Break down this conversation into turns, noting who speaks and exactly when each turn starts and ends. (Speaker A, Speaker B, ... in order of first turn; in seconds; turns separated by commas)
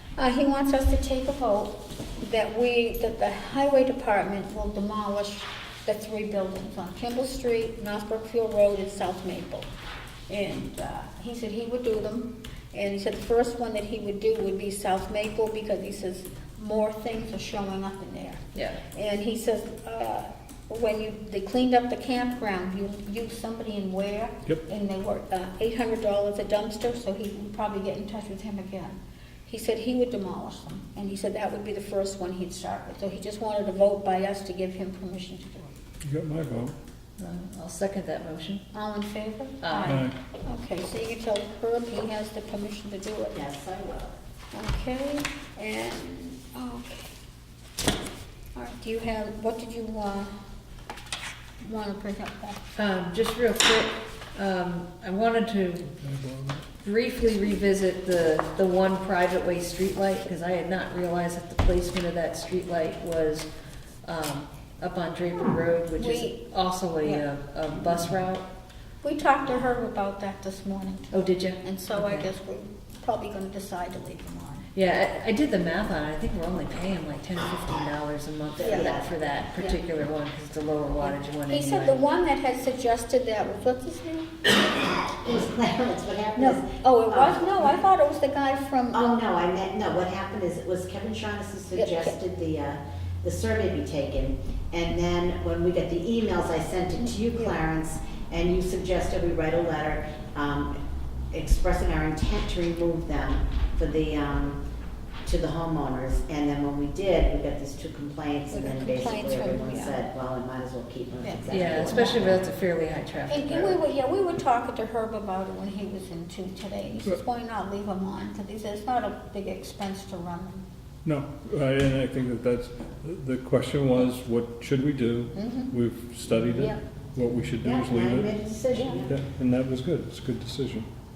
Speaker A: 0.2-9.7, Speaker A: 10.3-35.8, Speaker B: 18.5-18.8, Speaker C: 36.0-36.8, Speaker B: 37.2-38.6, Speaker A: 38.7-43.4, Speaker B: 39.6-40.0, Speaker C: 39.9-40.1, Speaker D: 43.3-44.2, Speaker A: 44.5-47.1, Speaker A: 48.5-50.3, Speaker A: 51.6-52.6, Speaker B: 52.8-55.9, Speaker C: 56.0-56.6, Speaker B: 56.8-63.5, Speaker B: 64.0-68.5, Speaker A: 66.0-66.4, Speaker A: 69.0-71.1, Speaker B: 71.1-72.3, Speaker A: 71.6-74.7, Speaker B: 74.8-82.0, Speaker D: 78.6-79.1, Speaker A: 78.6-79.0, Speaker A: 81.0-84.3, Speaker D: 85.0-87.8, Speaker A: 86.4-89.0, Speaker D: 88.9-100.8, Speaker A: 91.8-92.2, Speaker A: 97.1-97.6, Speaker D: 101.3-104.6, Speaker D: 105.2-112.4, Speaker A: 108.5-110.0, Speaker A: 111.2-112.4, Speaker B: 111.5-113.8, Speaker A: 113.3-120.7, Speaker C: 121.0-128.3, Speaker A: 125.3-125.7, Speaker A: 126.5-126.8, Speaker D: 127.6-129.2, Speaker A: 128.7-129.0, Speaker C: 129.1-130.9